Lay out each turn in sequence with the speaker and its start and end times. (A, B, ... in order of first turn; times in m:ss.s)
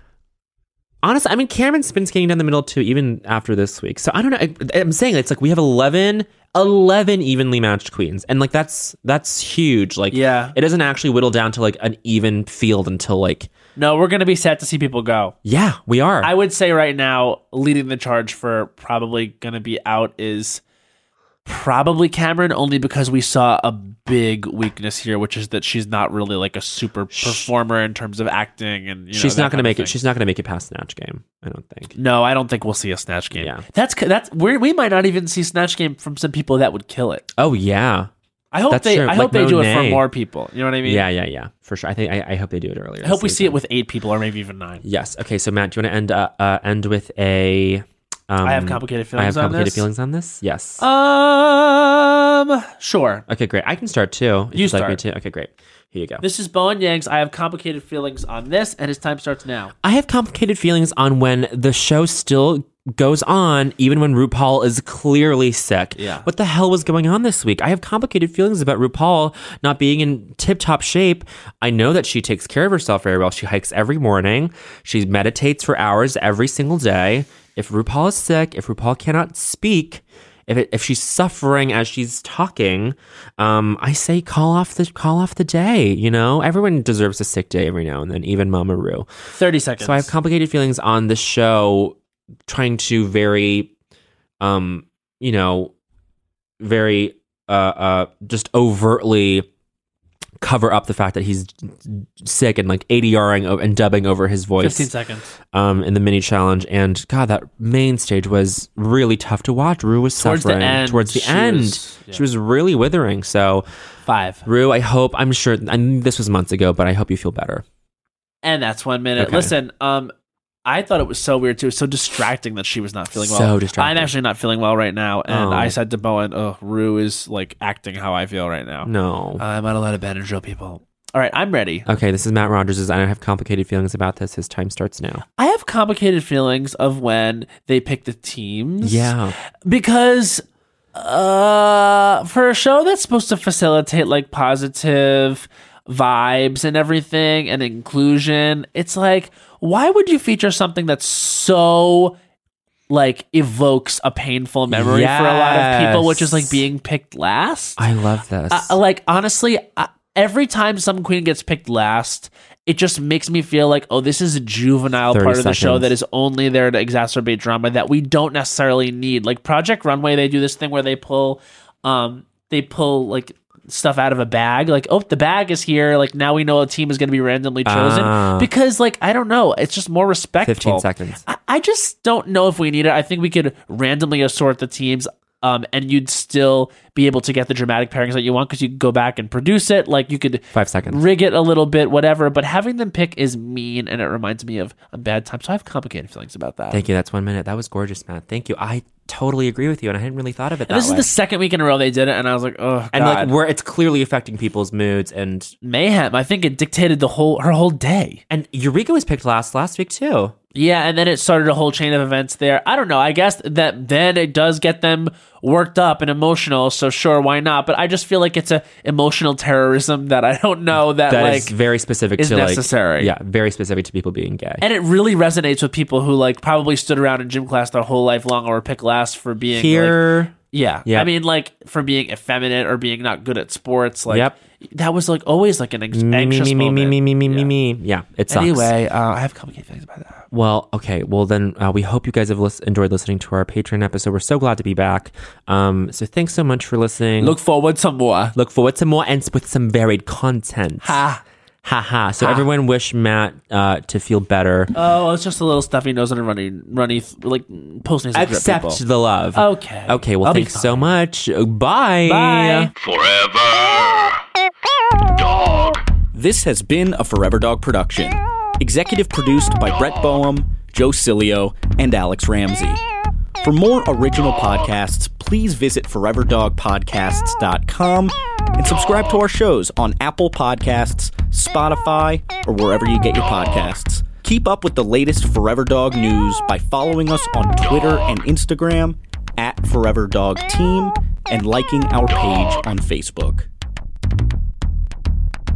0:01.0-0:13.5 A
0:10.1-0:10.6 B
0:13.8-0:15.3 B
0:15.4-0:16.3 A
0:16.2-0:20.6 B
0:21.4-0:30.0 B
0:27.1-0:27.5 A
0:29.1-0:31.9 A
0:31.9-0:37.2 B
0:33.3-0:33.6 A
0:37.4-0:38.1 A
0:38.5-0:41.0 B
0:38.7-0:40.0 A
0:40.8-0:43.6 A
0:43.0-0:44.8 B
0:44.8-0:50.8 A
0:48.4-0:49.8 B
0:50.8-0:53.2 B
0:53.3-0:56.2 A
0:54.5-0:55.0 B
0:56.2-0:59.7 B
0:59.8-1:29.1 A
1:06.0-1:06.2 B
1:29.3-1:30.1 B
1:29.8-1:32.0 A
1:32.5-1:33.7 A
1:34.4-1:35.7 A
1:36.6-1:39.4 A
1:40.4-1:44.9 A
1:44.6-1:45.3 B
1:45.5-1:53.6 A
1:50.2-1:52.2 B
1:54.1-1:54.4 B
1:54.4-1:57.6 A
1:58.4-2:00.1 B
1:59.2-1:59.5 A
2:00.6-2:11.8 B
2:03.2-2:04.1 A
2:05.3-2:05.8 A
2:08.8-2:09.4 A
2:11.8-2:15.2 A
2:15.4-2:20.4 B
2:18.8-2:19.4 A
2:20.9-2:32.2 B
2:32.9-2:37.8 B
2:34.7-2:36.6 A
2:37.8-2:38.8 A
2:38.5-3:16.8 B
2:45.1-2:45.9 A
2:57.6-2:58.5 A
3:00.4-3:01.2 A
3:10.5-3:11.0 A
3:16.7-3:21.1 A
3:20.7-3:23.3 B
3:22.9-3:25.5 A
3:25.6-3:28.2 B
3:28.3-3:30.3 A
3:30.5-3:41.5 B
3:41.1-3:44.6 A
3:42.2-3:43.1 B
3:44.6-3:57.5 B
3:49.5-3:50.3 A
3:54.1-3:54.4 A
3:55.9-3:58.7 A
3:58.3-4:00.2 B
4:00.3-4:07.4 A
4:07.2-4:08.3 B
4:08.3-4:11.0 A
4:10.8-4:11.2 B
4:11.6-4:14.7 A
4:14.7-4:18.8 B
4:18.1-4:22.7 A
4:19.3-4:21.0 B
4:22.0-4:22.7 B
4:26.1-4:32.8 C
4:33.4-4:53.5 C